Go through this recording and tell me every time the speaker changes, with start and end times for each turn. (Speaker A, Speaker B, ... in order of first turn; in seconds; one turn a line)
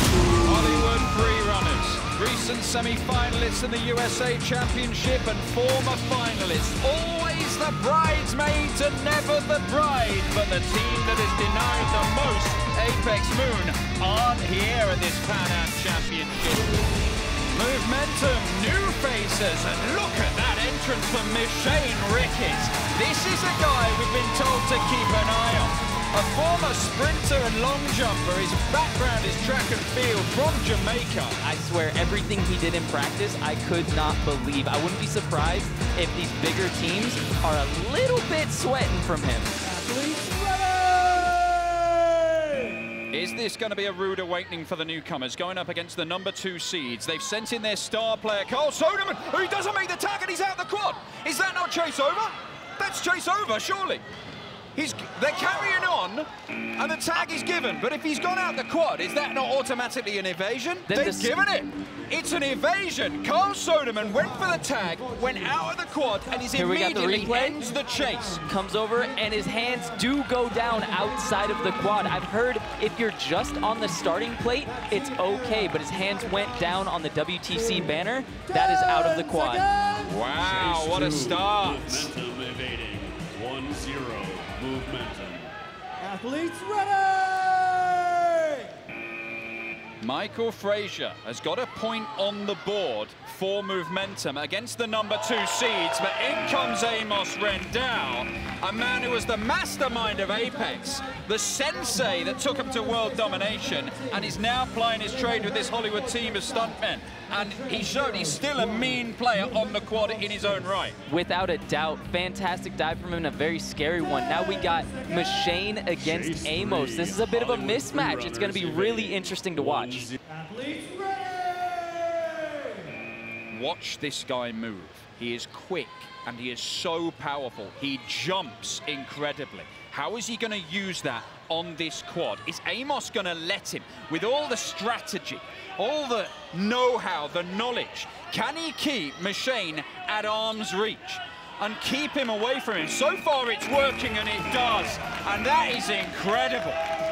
Speaker A: 0.4-16.8
Speaker A: 17.5-31.4
Speaker B: 31.4-39.5
Speaker C: 39.6-42.8
Speaker A: 43.1-54.0
Speaker A: 54.8-68.4
Speaker B: 60.9-61.3
Speaker B: 66.5-67.6
Speaker B: 68.5-79.6
Speaker C: 78.5-80.2
Speaker A: 80.0-82.1
Speaker D: 80.4-85.5
Speaker C: 86.0-88.7
Speaker A: 90.0-111.0
Speaker B: 111.1-120.1
Speaker D: 116.0-120.2
Speaker C: 120.3-122.9
Speaker A: 123.5-146.8